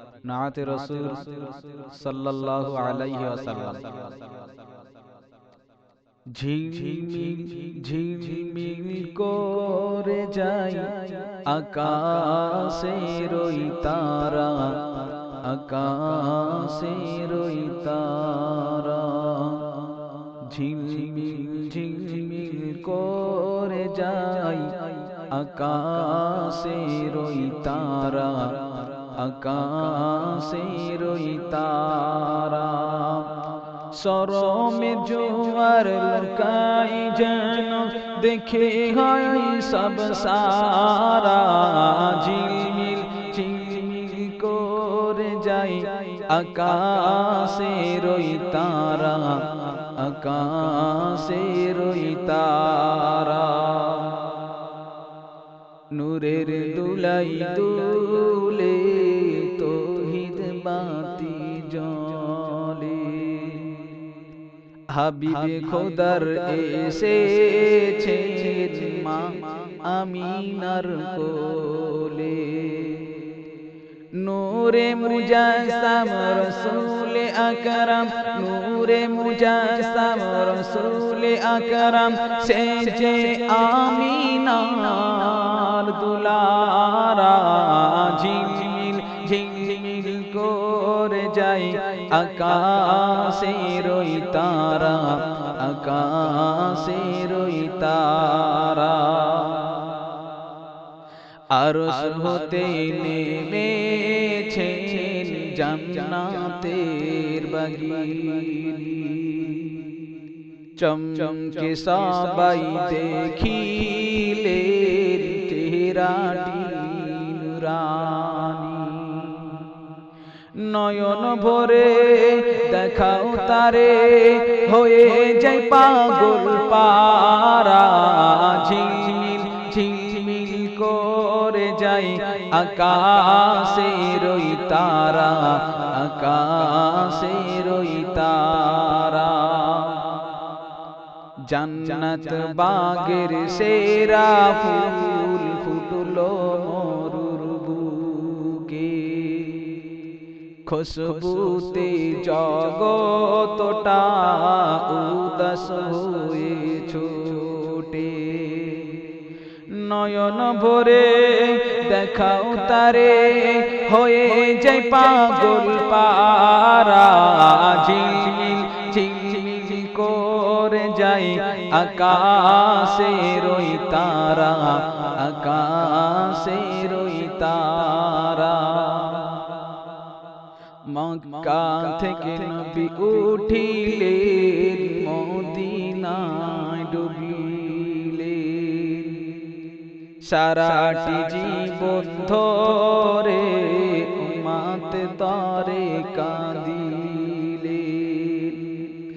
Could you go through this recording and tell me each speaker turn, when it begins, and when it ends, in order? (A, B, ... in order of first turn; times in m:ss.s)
0:00.2-0:04.1 A
0:06.3-0:33.4 A
0:33.9-0:54.4 A
0:55.9-1:03.9 A
1:04.9-1:13.3 A
1:14.2-1:40.0 A
1:41.5-1:50.0 A
1:50.8-1:59.8 A
2:00.5-2:20.2 A
2:21.4-2:29.9 A
2:30.6-2:39.1 A
2:39.7-2:59.6 A
3:00.9-3:09.4 A
3:10.2-3:18.9 A